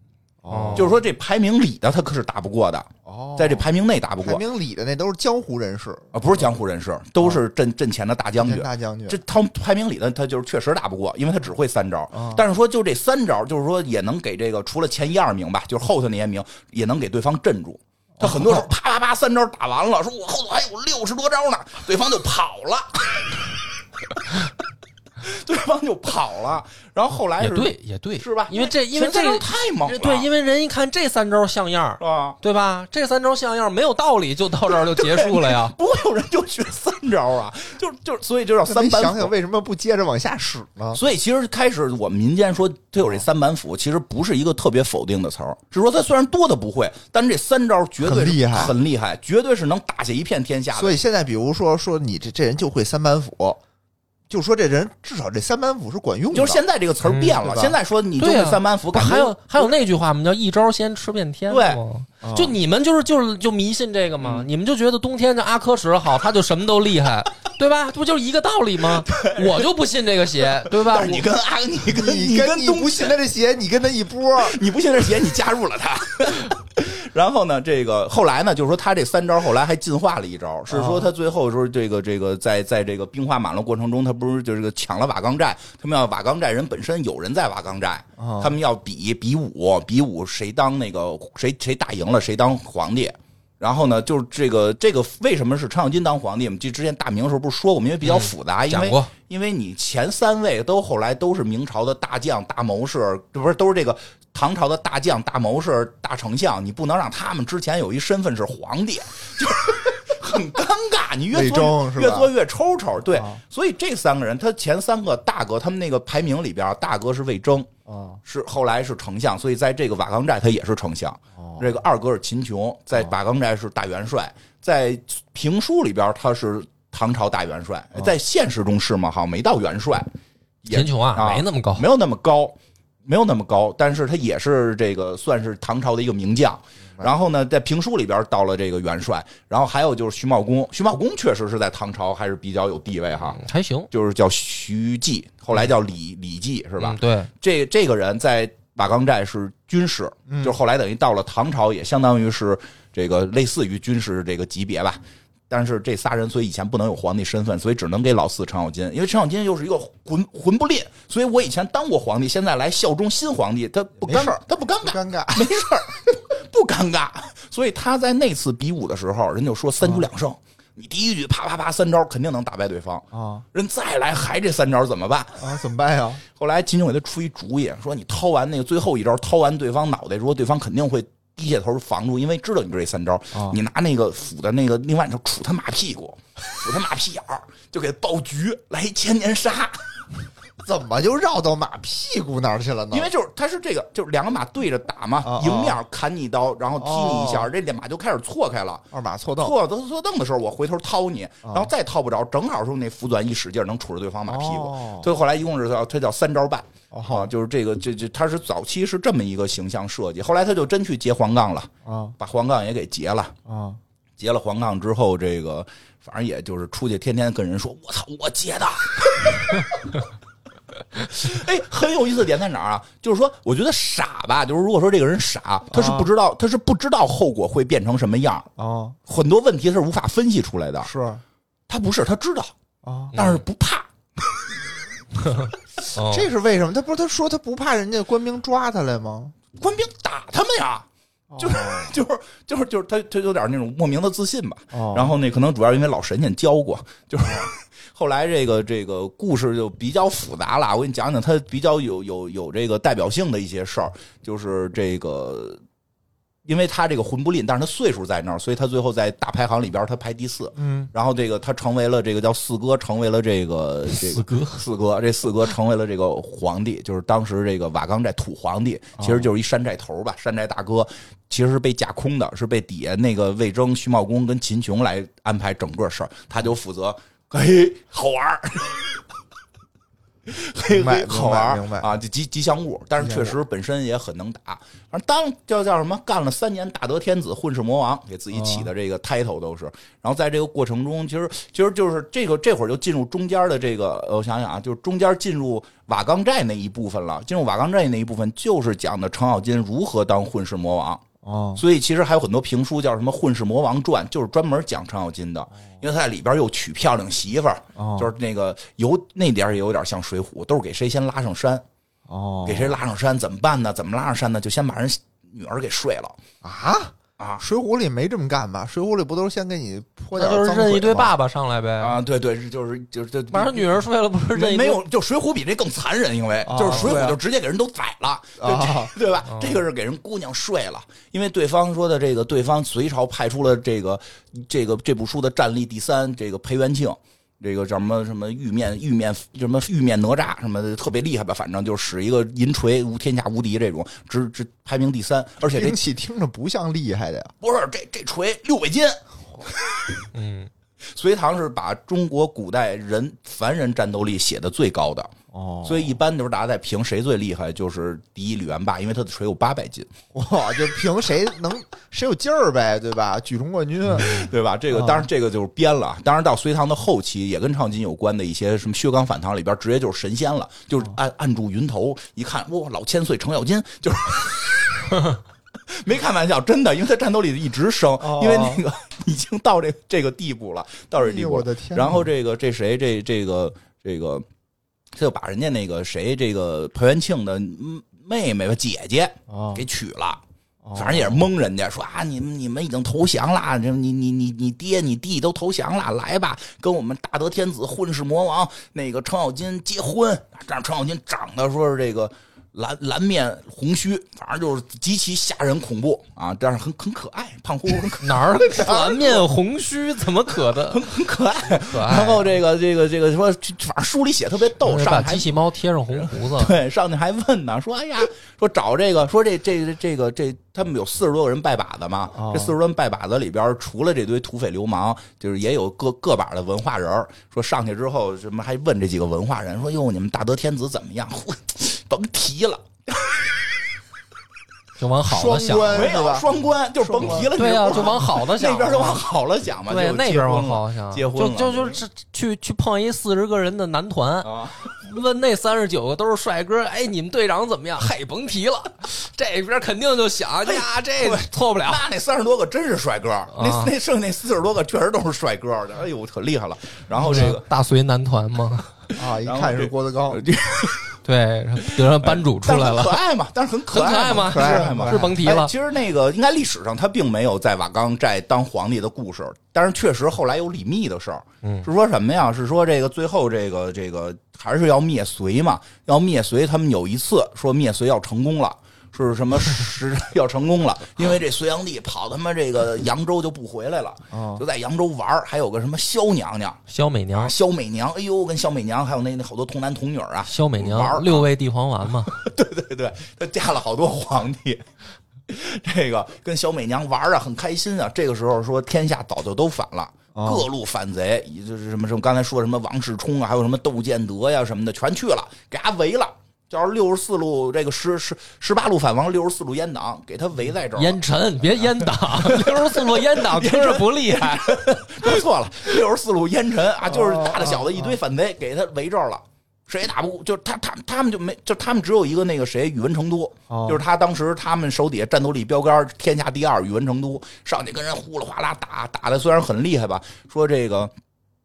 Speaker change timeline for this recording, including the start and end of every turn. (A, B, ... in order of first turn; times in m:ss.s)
0:00.4-0:01.0 A
0:00.5-0:00.9 B
0:00.8-0:04.4 C
0:03.0-0:03.7 A
0:04.2-0:06.5 A
0:06.1-0:23.5 C
0:08.4-0:09.2 A
0:12.1-0:12.4 A
0:18.2-0:18.6 A
0:24.1-0:24.5 C
0:25.2-0:30.3 C
0:27.4-0:35.8 B
0:32.0-0:32.4 C
0:34.7-0:39.3 C
0:38.6-0:41.0 A
0:40.9-0:51.0 C
0:48.0-0:48.8 A
0:50.7-0:53.6 A
0:54.3-0:56.6 A
0:56.3-0:59.7 C
0:57.0-0:57.5 B
0:57.4-0:57.8 A
0:58.2-1:11.3 B
1:01.5-1:01.8 C
1:02.2-1:02.6 A
1:04.2-1:04.5 C
1:09.0-1:09.7 C
1:10.7-1:13.2 C
1:11.9-1:14.6 A
1:14.4-1:57.7 C
1:20.7-1:21.1 A
1:28.2-1:28.6 A
1:38.0-1:39.1 B
1:51.3-1:52.3 A
1:53.1-1:53.4 A
1:57.9-1:58.2 A
1:58.2-2:10.1 C
2:01.4-2:01.7 A
2:10.6-2:23.4 C
2:10.7-2:11.9 B
2:23.3-2:23.9 B
2:23.9-2:55.5 C
2:26.8-2:27.3 B
2:30.3-2:30.6 A
2:44.0-2:45.5 A
2:49.8-2:50.1 A
2:53.1-2:53.4 A
2:55.4-2:56.2 A
2:56.3-3:10.0 C
3:03.3-3:03.6 A
3:10.6-3:13.1 A
3:12.9-3:18.8 C
3:15.2-3:15.8 A
3:16.8-3:17.5 A
3:18.9-3:19.6 A
3:19.4-3:33.4 C
3:21.4-3:21.7 A
3:24.3-3:25.1 A
3:26.9-3:27.3 A
3:31.8-3:32.2 A
3:33.5-3:33.8 A
3:34.2-3:40.1 C
3:40.9-3:48.5 C
3:45.7-3:46.1 A
3:48.6-3:49.0 A
3:49.1-3:50.9 C
3:50.8-3:51.2 A
3:51.7-3:52.5 C
3:52.8-3:53.2 A
3:53.1-3:53.4 B
3:53.1-3:54.6 C
3:55.3-3:56.3 B
3:56.0-3:59.4 A
3:59.6-4:00.9 C
4:01.3-4:02.0 A
4:01.4-4:15.6 C
4:04.7-4:05.1 A
4:07.2-4:07.5 A
4:16.4-4:39.0 C
4:20.6-4:20.9 A
4:24.1-4:24.6 B
4:29.0-4:29.3 A
4:40.3-5:01.0 C
4:40.7-4:41.9 A
4:43.0-4:43.4 A
4:48.3-4:48.7 A
5:01.2-5:01.6 A
5:01.6-5:11.6 C
5:07.8-5:08.1 A
5:12.1-5:12.8 A
5:12.4-5:16.2 C
5:16.4-5:21.1 A
5:17.2-5:17.4 C
5:20.2-5:22.0 B
5:21.8-5:23.7 C
5:23.3-5:24.8 B
5:24.3-5:45.8 C
5:26.5-5:27.2 A
5:26.6-5:27.0 B
5:28.4-5:28.9 A
5:29.3-5:29.6 B
5:45.4-5:47.3 A
5:47.4-5:50.1 C
5:50.1-5:50.5 B
5:50.9-5:55.1 C
5:55.3-5:56.0 A
5:55.6-5:59.9 C
6:00.1-6:05.1 A
6:03.9-6:15.2 C
6:15.7-6:24.2 C
6:18.0-6:18.6 A
6:21.0-6:22.1 A
6:24.9-6:30.2 C
6:29.3-6:29.6 A
6:30.6-6:31.3 A
6:30.8-6:49.3 C
6:48.0-6:50.9 B
6:50.5-6:55.3 C
6:51.5-6:52.3 B
6:54.6-6:56.5 B
6:55.9-7:13.5 C
7:02.1-7:02.6 A
7:14.8-7:15.9 B
7:15.1-7:17.9 A
7:15.7-7:21.8 C
7:17.0-7:19.0 B
7:19.7-7:31.8 B
7:24.2-7:24.7 C
7:30.4-7:37.4 C
7:33.3-7:33.7 B
7:37.0-7:38.8 B
7:37.0-7:37.4 A
7:39.0-7:40.2 A
7:39.2-7:41.0 C
7:41.0-7:43.0 B
7:41.7-8:06.6 C
7:43.7-7:45.5 B
7:44.2-7:45.2 A
8:04.1-8:04.4 A
8:06.7-8:07.3 B
8:07.1-8:11.3 C
8:10.3-8:12.2 B
8:12.0-8:14.7 C
8:15.3-8:50.9 C
8:20.1-8:20.5 A
8:30.8-8:34.6 B
8:36.9-8:38.0 A
8:43.5-8:43.8 A